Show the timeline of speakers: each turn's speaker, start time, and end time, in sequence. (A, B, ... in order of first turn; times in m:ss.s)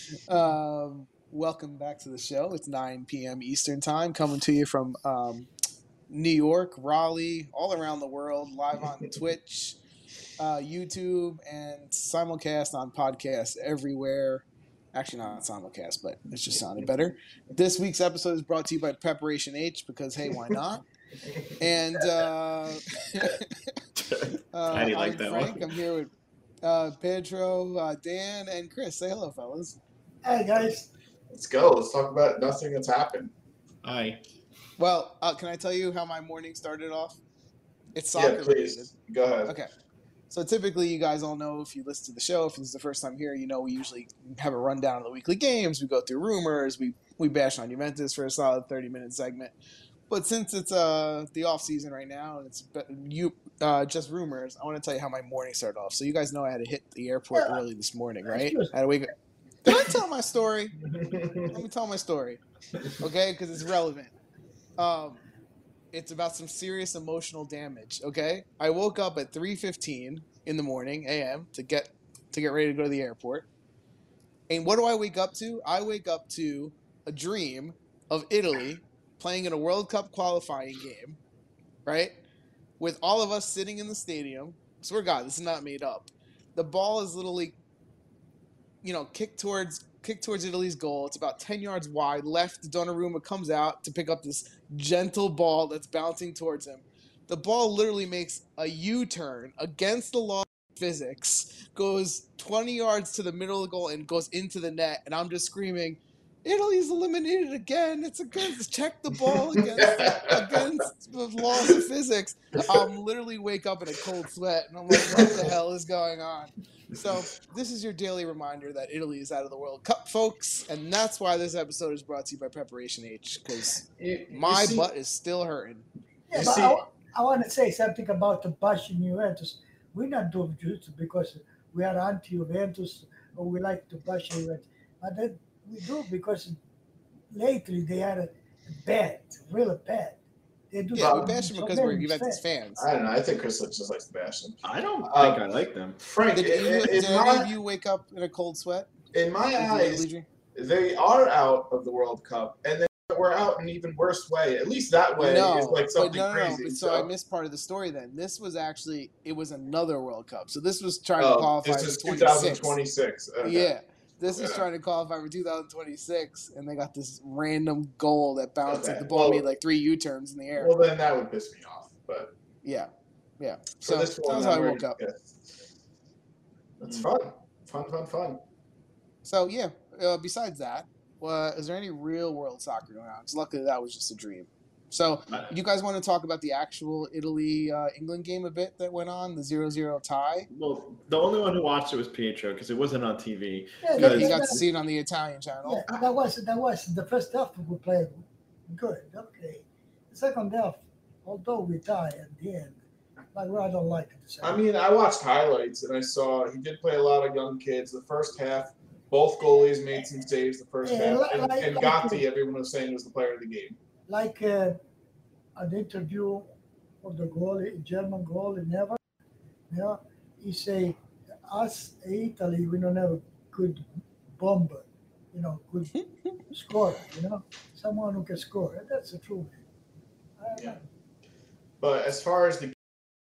0:00.3-0:05.5 A
0:06.1-0:09.8 A
0:10.4-0:20.8 A
0:21.6-0:23.5 A
0:24.0-0:25.7 B
0:24.5-0:26.1 A
0:26.6-0:29.8 A
0:30.2-0:30.9 C
0:31.3-0:33.3 D
0:33.8-0:34.2 B
0:34.8-0:37.2 A
0:38.0-0:38.9 A
0:38.2-0:39.5 D
0:40.3-0:49.6 A
0:50.1-0:59.1 A
0:57.4-0:57.6 C
0:58.3-0:58.7 C
0:59.6-1:00.8 A
1:00.8-1:01.5 D
1:01.5-1:02.4 A
1:03.0-1:04.1 A
1:04.8-1:05.2 A
1:05.9-1:13.5 A
1:14.5-1:21.2 A
1:21.9-1:22.2 A
1:22.8-1:27.6 A
1:28.8-2:05.9 A
1:49.6-1:50.6 D
1:55.0-1:55.5 D
2:04.0-2:04.9 D
2:06.3-2:16.6 C
2:06.3-2:06.8 D
2:17.3-2:20.2 C
2:20.7-2:22.4 C
2:20.9-2:22.9 A
2:21.0-2:21.4 D
2:22.8-2:25.4 D
2:24.6-2:26.0 B
2:26.0-2:27.5 D
2:26.4-2:28.9 A
2:29.1-2:37.1 D
2:29.6-2:30.3 A
2:35.2-2:42.8 A
2:41.2-2:43.7 D
2:43.4-2:50.7 A
2:44.3-2:44.6 D
2:48.7-2:49.4 D
2:50.6-2:52.3 D
2:52.6-2:55.0 A
2:53.8-2:55.5 D
2:56.8-2:58.4 D
2:59.2-3:10.5 A
3:10.5-3:14.6 B
3:13.8-3:14.6 C
3:14.0-3:15.8 A
3:15.6-3:22.8 C
3:23.3-3:24.6 C
3:24.4-3:33.8 D
3:30.8-3:32.2 C
3:34.1-3:34.8 C
3:35.6-3:36.5 C
3:37.0-3:39.0 C
3:39.7-3:46.0 C
3:46.5-3:49.6 C
3:50.4-3:50.8 C
3:51.8-3:52.8 D